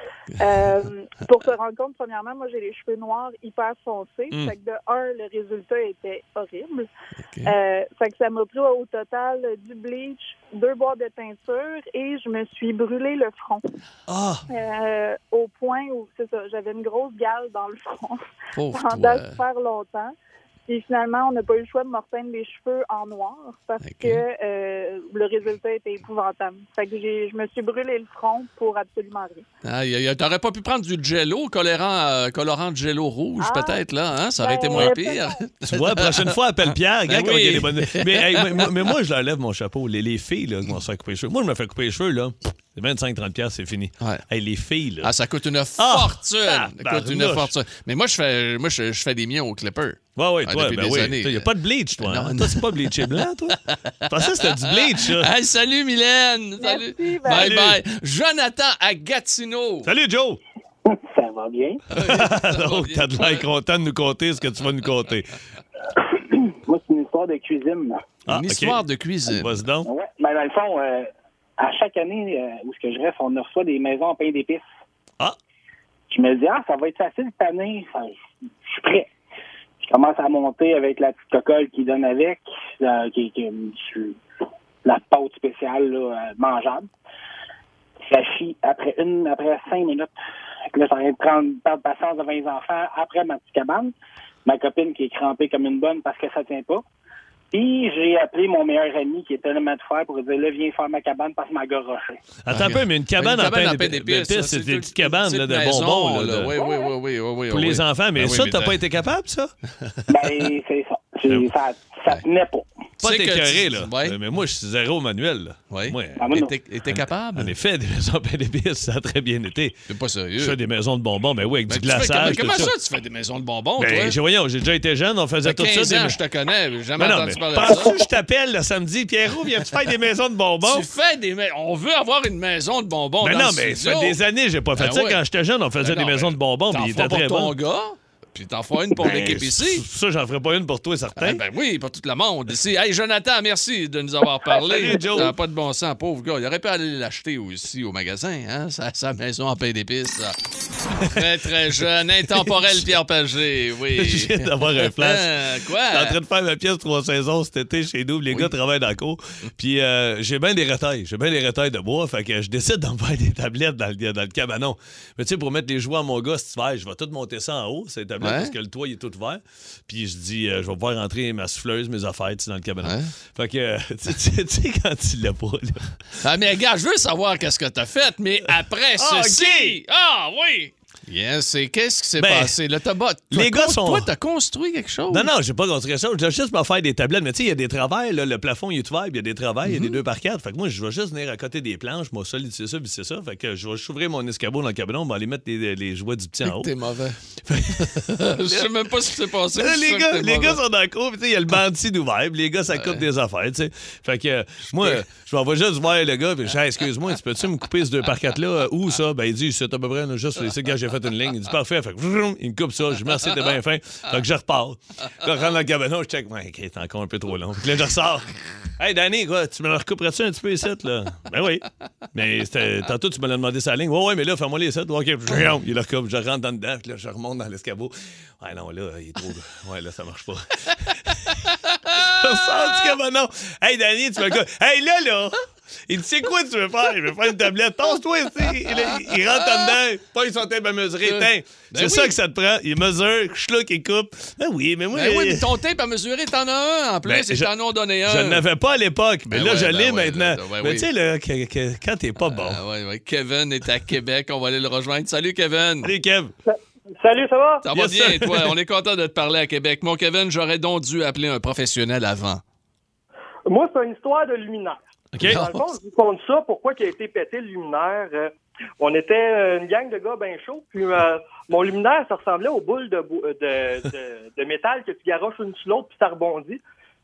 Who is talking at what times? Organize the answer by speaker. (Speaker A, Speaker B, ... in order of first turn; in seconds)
Speaker A: 0.4-6.9, 7.4-13.6, 14.5-20.1, 20.7-29.4, 33.4-33.8, 34.4-35.4, 56.6-57.5
Speaker B: 7.2-7.5, 18.5-19.4, 23.8-24.2, 29.6-36.4, 37.1-38.7, 45.0-59.9, 61.9-63.5, 68.3-69.5, 102.5-108.8, 113.0-114.2, 115.7-117.5, 119.9-120.6, 121.7-124.2, 125.4-128.0, 130.6-134.2, 134.7-135.2, 135.8-139.8, 141.2-150.4, 151.0-156.2, 168.2-168.5, 172.8-173.1, 176.2-185.3, 189.7-190.0, 196.4-200.6, 202.7-203.0, 204.7-205.1, 231.7-232.1, 238.7-239.8, 241.0-242.2, 244.9-248.4, 249.3-250.9, 252.2-255.9, 257.6-262.4, 265.2-265.6
Speaker C: 14.1-14.4, 35.6-45.1, 45.8-47.5, 50.1-55.3, 57.2-57.8, 59.8-60.4, 62.0-65.3, 68.3-69.9, 102.4-106.5, 107.5-109.5, 113.0-116.3, 116.9-119.8, 120.4-122.7, 123.8-126.2, 127.0-130.9, 133.2-137.5, 139.0-141.4, 144.5-145.3, 150.9-152.8, 153.9-175.9, 178.9-179.8, 182.2-182.6, 183.3-184.1, 185.1-196.7, 197.4-198.9, 199.5-245.5, 247.1-247.5, 248.0-252.6, 255.8-256.3, 257.7-258.5, 265.1-265.4
Speaker D: 60.8-61.8, 66.2-68.0, 69.8-74.7, 76.1-78.1, 78.6-79.1, 79.8-84.2, 84.8-86.9, 88.1-90.1, 90.7-93.9, 94.4-96.8, 97.5-102.2, 110.1-112.7, 116.2-116.5
Speaker E: 256.5-257.6, 263.5-276.6